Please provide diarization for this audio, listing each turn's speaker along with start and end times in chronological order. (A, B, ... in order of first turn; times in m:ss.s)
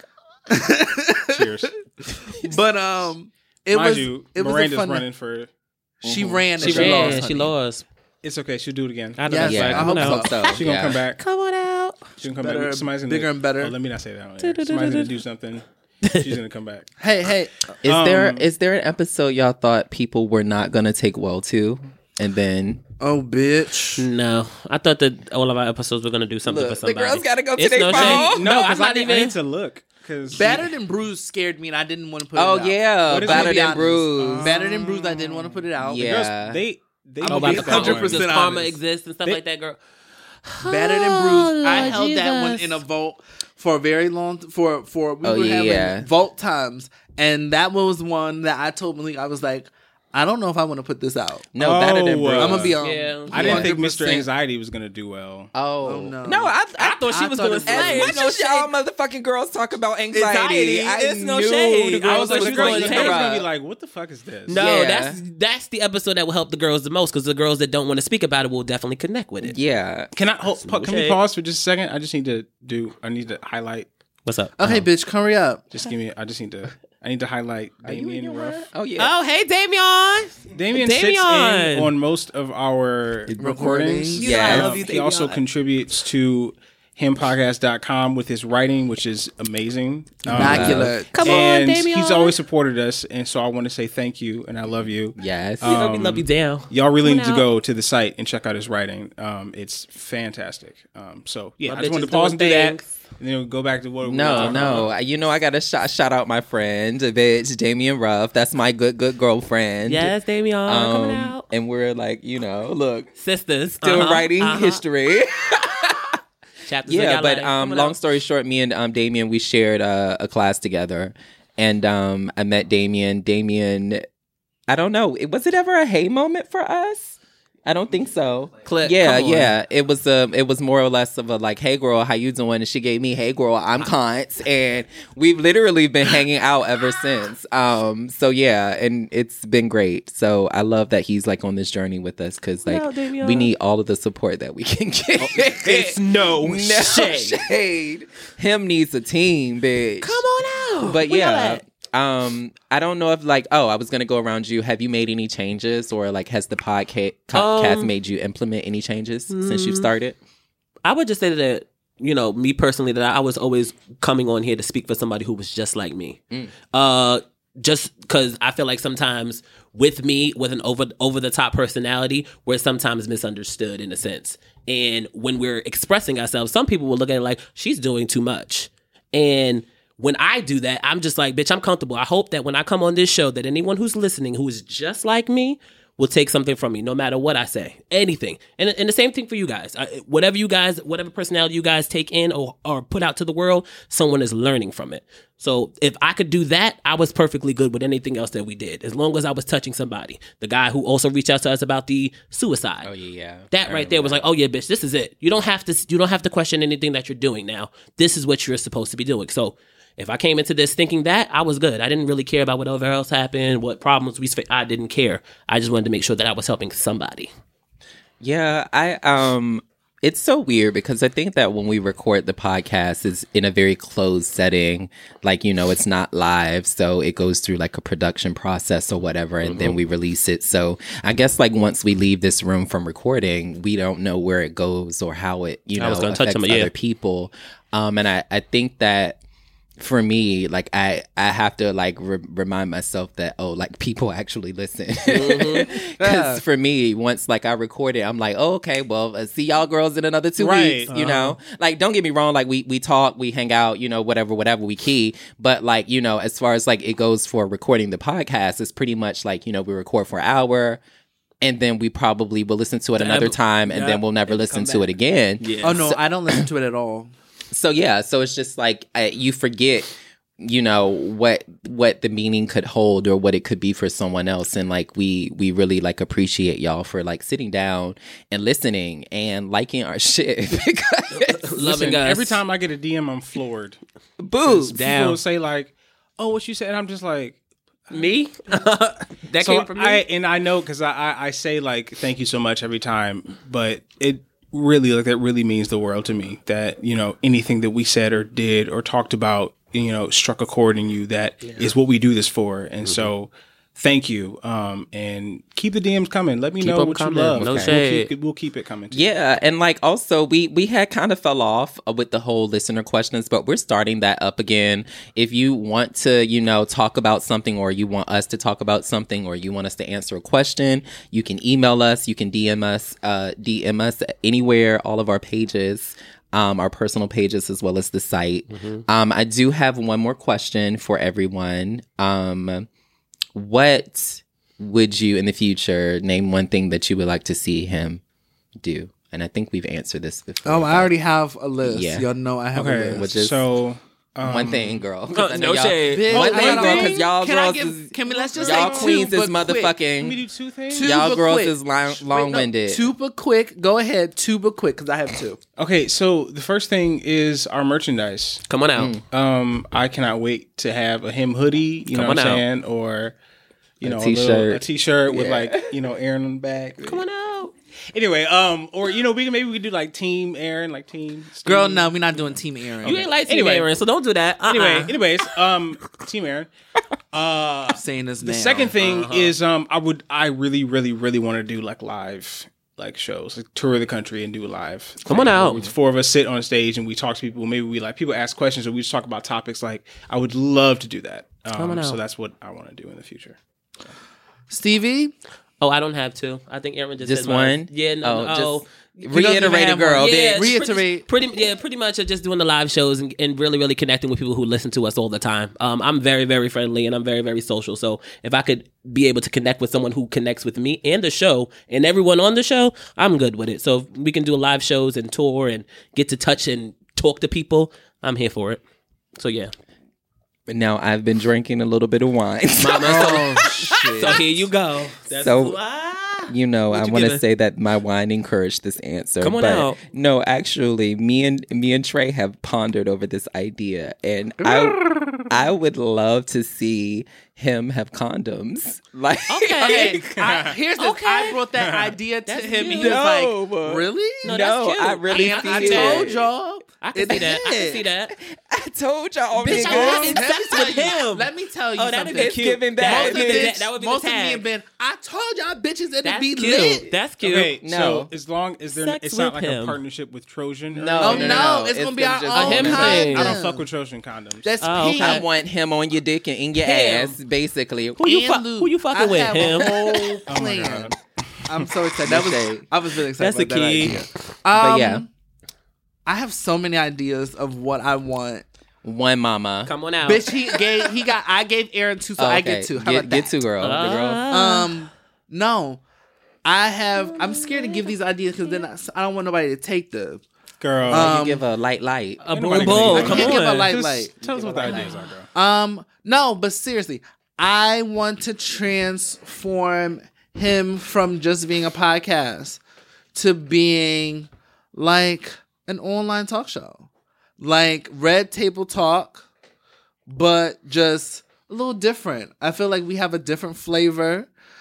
0:00.5-0:05.0 A
0:01.3-0:01.7 B
0:03.7-0:05.5 B
0:06.0-0:07.5 A
0:06.0-0:07.3 C
0:06.6-0:07.9 D
0:08.2-0:09.2 B
0:09.2-0:10.6 D
0:09.2-0:10.5 A
0:09.4-0:11.0 C
0:10.6-0:11.2 B
0:11.2-0:12.0 D
0:12.2-0:16.9 B
0:12.3-0:13.7 A
0:14.4-0:15.1 D
0:16.0-0:16.3 D
0:17.0-0:17.6 A
0:17.8-0:18.5 B
0:17.8-0:22.8 C
0:23.0-0:24.0 A
0:24.0-0:29.3 D
0:26.4-0:28.4 C
0:27.9-0:30.7 B
0:30.3-0:36.2 A
0:32.4-0:34.5 C
0:33.1-0:35.2 B
0:35.8-0:36.6 C
0:36.0-0:38.3 B
0:37.2-0:38.8 A
0:37.2-0:39.8 D
0:40.4-0:42.8 D
0:40.6-0:51.5 A
0:45.2-0:46.1 C
0:51.5-0:52.8 C
0:51.6-0:52.8 B
0:52.4-0:54.3 A
0:52.8-0:53.4 D
0:53.3-0:55.5 B
0:53.3-0:53.7 C
0:55.6-1:03.5 C
0:55.8-0:56.6 A
0:56.8-0:58.7 D
0:57.1-0:58.2 A
1:00.1-1:03.3 D
1:00.2-1:00.8 A
1:02.0-1:04.6 B
1:04.5-1:09.6 D
1:04.6-1:05.2 C
1:09.4-1:10.1 C
1:10.1-1:13.9 B
1:10.6-1:11.2 D
1:14.3-1:14.8 D
1:14.6-1:15.6 A
1:15.7-1:18.6 B
1:17.9-1:19.1 C
1:19.0-1:21.9 D
1:20.5-1:44.9 B
1:23.3-1:25.2 A
1:24.2-1:24.7 C
1:24.2-1:25.4 D
1:30.2-1:31.4 A
1:30.3-1:30.9 C
1:31.1-1:32.3 D
1:35.2-1:35.8 C
1:35.6-1:37.4 D
1:41.6-1:42.9 D
1:44.0-1:50.1 C
1:44.3-1:44.9 D
1:49.9-1:51.4 D
1:50.6-1:53.1 C
1:53.2-1:54.8 D
1:53.8-1:56.2 C
1:56.6-1:58.0 D
1:56.9-2:04.0 C
2:04.7-2:30.2 C
2:08.6-2:09.6 D
2:22.6-2:23.5 D
2:25.3-2:27.4 D
2:25.7-2:26.7 B
2:30.0-2:31.6 D
2:30.9-2:40.2 C
2:37.3-2:37.9 D
2:39.3-2:39.9 D
2:40.8-2:46.2 D
2:46.7-3:22.9 D
3:22.8-3:24.3 C
3:23.5-3:37.3 D
3:38.2-3:59.2 C
3:49.4-3:49.8 D
3:55.8-3:56.7 D
3:59.8-4:20.8 C
4:05.1-4:05.7 D
4:06.0-4:06.4 A
4:10.4-4:10.9 B
4:10.9-4:11.4 D
4:21.4-4:26.4 C
4:23.0-4:25.8 D
4:25.6-4:27.1 A
4:27.5-4:41.5 C
4:41.1-4:42.4 D
4:41.6-4:43.8 B
4:44.2-4:44.8 C
4:44.4-4:47.4 B
4:44.7-4:45.2 D
4:47.9-4:50.0 D
4:49.4-5:09.0 B
5:01.4-5:01.7 D
5:02.8-5:03.1 D
5:06.6-5:08.1 D
5:07.4-5:07.8 C
5:08.9-5:32.7 C
5:28.5-5:28.8 D
5:33.3-5:38.0 C
5:38.6-5:40.9 C
5:40.4-5:43.1 A
5:41.6-5:42.0 C
5:42.6-5:44.8 B
5:42.9-5:43.4 C
5:44.2-5:50.2 C
5:45.1-5:46.9 D
5:45.9-5:49.8 A
5:46.4-5:46.7 B
5:48.1-5:49.1 B
5:50.0-5:51.0 B
5:50.7-5:55.4 A
5:50.8-5:52.9 C
5:55.6-5:58.4 B
5:58.5-5:58.9 D
5:58.8-5:59.0 C
5:59.1-6:03.2 B
6:01.9-6:02.4 D
6:03.8-6:07.0 B
6:03.8-6:05.7 C
6:06.8-6:07.5 D
6:07.9-6:12.3 B
6:11.4-6:13.0 A
6:12.8-6:13.7 B
6:12.8-6:15.0 D
6:14.5-6:16.5 B
6:17.1-6:33.4 B
6:17.7-6:18.7 A
6:18.8-6:19.3 D
6:25.0-6:25.7 D
6:31.6-6:32.0 D
6:34.5-6:35.1 A
6:35.6-6:38.6 D
6:37.0-6:40.6 C
6:39.0-6:41.1 A
6:40.0-6:58.6 D
6:59.2-6:59.5 D
7:00.5-7:04.1 C
7:02.6-7:03.4 D
7:02.8-7:04.4 A
7:04.0-7:07.2 D
7:05.1-7:05.6 C
7:06.3-7:20.1 C
7:09.2-7:09.8 D
7:14.4-7:15.1 A
7:19.3-7:20.0 D
7:19.6-7:24.4 A
7:20.2-7:20.6 B
7:20.8-7:21.4 D
7:21.6-7:21.9 B
7:22.3-7:23.0 D
7:22.6-7:26.3 C
7:24.2-7:26.1 D
7:25.1-7:27.8 A
7:26.8-7:28.1 D
7:27.1-7:30.2 C
7:29.4-7:34.4 D
7:29.4-7:36.9 A
7:29.6-7:30.1 B
7:32.1-7:33.6 C
7:36.0-7:37.6 D
7:37.2-7:41.5 B
7:37.6-7:38.1 C
7:38.7-7:39.8 D
7:40.7-7:43.2 C
7:41.0-7:43.7 A
7:42.3-7:43.3 D
7:42.6-7:44.5 B
7:44.4-7:45.3 A
7:44.6-7:45.2 D
7:44.8-7:48.0 C
7:46.6-7:47.2 D
7:48.0-7:50.1 D
7:48.0-7:50.9 A
7:50.3-7:51.6 B
7:51.4-7:55.1 A
7:52.0-7:52.7 C
7:53.2-7:54.0 D
7:54.5-7:55.0 C
7:56.0-7:58.4 A
7:58.8-7:59.7 C
7:59.6-8:00.3 D
8:00.0-8:03.8 A
8:02.2-8:04.2 C
8:03.6-8:04.7 D
8:04.3-8:05.8 A
8:06.4-8:10.2 A
8:07.1-8:07.9 D
8:10.6-8:11.1 B
8:10.9-8:11.4 A
8:10.9-8:13.3 C
8:12.2-8:13.7 D
8:12.3-8:15.3 B
8:12.9-8:22.6 A
8:14.6-8:14.9 D
8:23.1-8:26.9 A
8:27.4-8:29.2 A
8:30.1-8:34.3 A